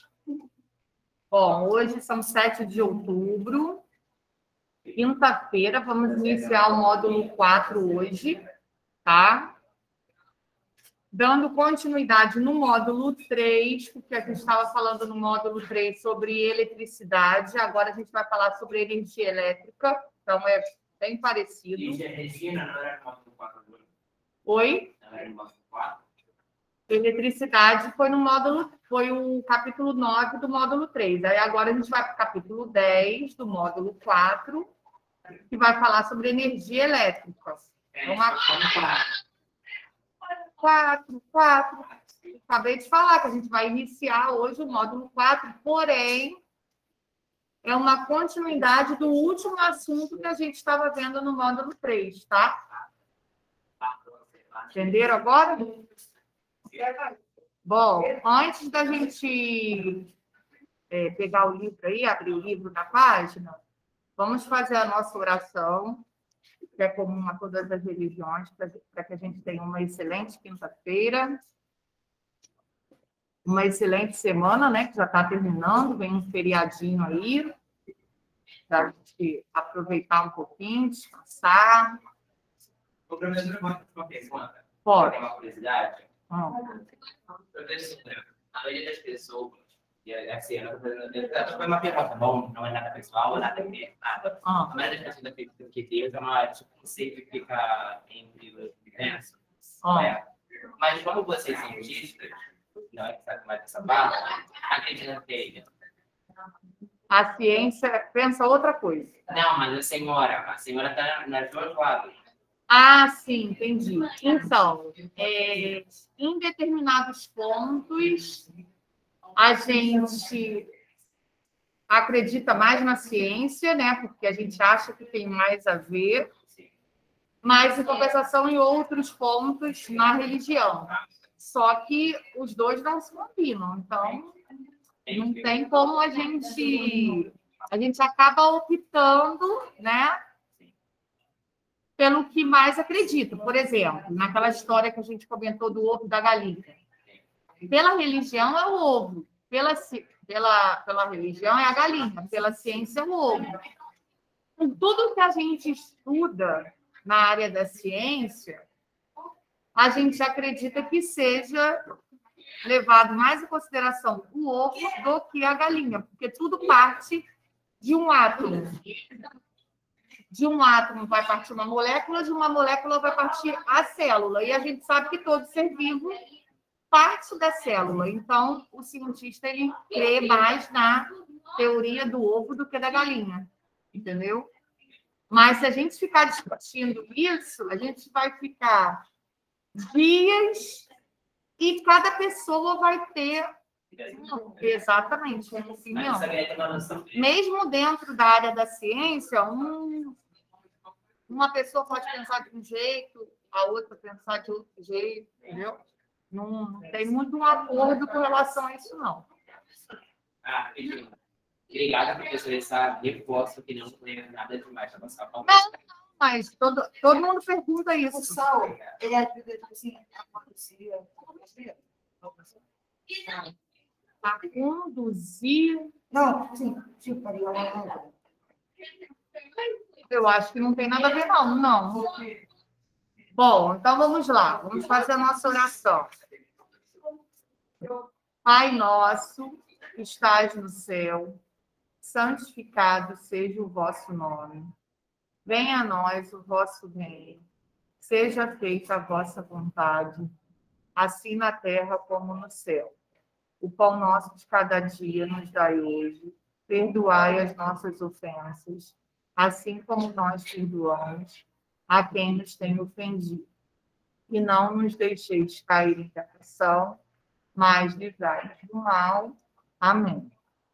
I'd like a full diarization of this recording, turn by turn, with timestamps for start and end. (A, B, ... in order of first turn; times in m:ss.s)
0:01.3-0:03.8 A
0:05.0-0:08.4 A
0:09.0-0:09.6 A
0:11.1-0:22.0 A
0:21.7-0:23.8 B
0:24.4-0:24.9 A
0:25.0-0:26.0 B
0:26.9-0:34.7 A
0:35.5-0:38.9 A
0:37.9-0:39.1 B
0:40.6-0:41.9 A
0:42.4-0:46.4 A
0:47.6-0:52.6 A
0:53.8-0:55.0 B
0:54.7-0:55.8 A
0:57.6-1:00.1 A
1:00.9-1:03.6 A
1:04.2-1:06.0 A
1:06.8-1:11.4 A
1:13.4-1:17.5 A
1:18.7-1:22.0 A
1:23.1-1:26.1 B
1:24.8-1:25.2 A
1:26.3-1:26.7 A
1:27.5-1:40.3 B
1:34.4-1:34.7 A
1:39.8-1:40.1 A
1:40.8-1:42.4 B
1:42.9-1:45.7 B
1:47.1-1:49.1 A
1:49.3-1:52.2 B
1:52.7-1:58.4 A
1:59.4-2:00.7 A
2:01.9-2:06.3 A
2:07.4-2:14.4 A
2:15.0-2:15.5 B
2:15.1-2:20.2 A
2:22.0-2:26.8 A
2:27.6-2:33.6 A
2:34.6-2:38.6 A
2:39.8-2:41.8 A
2:42.6-2:47.2 A
2:47.8-2:48.8 A
2:50.3-2:56.2 A
2:56.9-3:04.5 A
3:05.3-3:09.0 A
3:09.8-3:10.8 A
3:11.6-3:13.5 A
3:14.1-3:16.3 A
3:15.9-3:17.3 B
3:17.1-3:20.2 A
3:21.3-3:29.3 A
3:30.4-3:31.2 B
3:31.7-3:35.6 B
3:35.4-3:38.4 A
3:38.1-3:41.8 C
3:44.2-3:45.9 A
3:46.1-3:48.1 C
3:50.1-3:52.3 A
3:53.3-3:56.1 A
3:58.4-4:01.4 A
4:02.0-4:04.7 A
4:05.4-4:07.4 A
4:08.0-4:10.3 A
4:11.0-4:12.9 A
4:13.6-4:23.5 A
4:24.3-4:27.0 A
4:27.5-4:30.3 A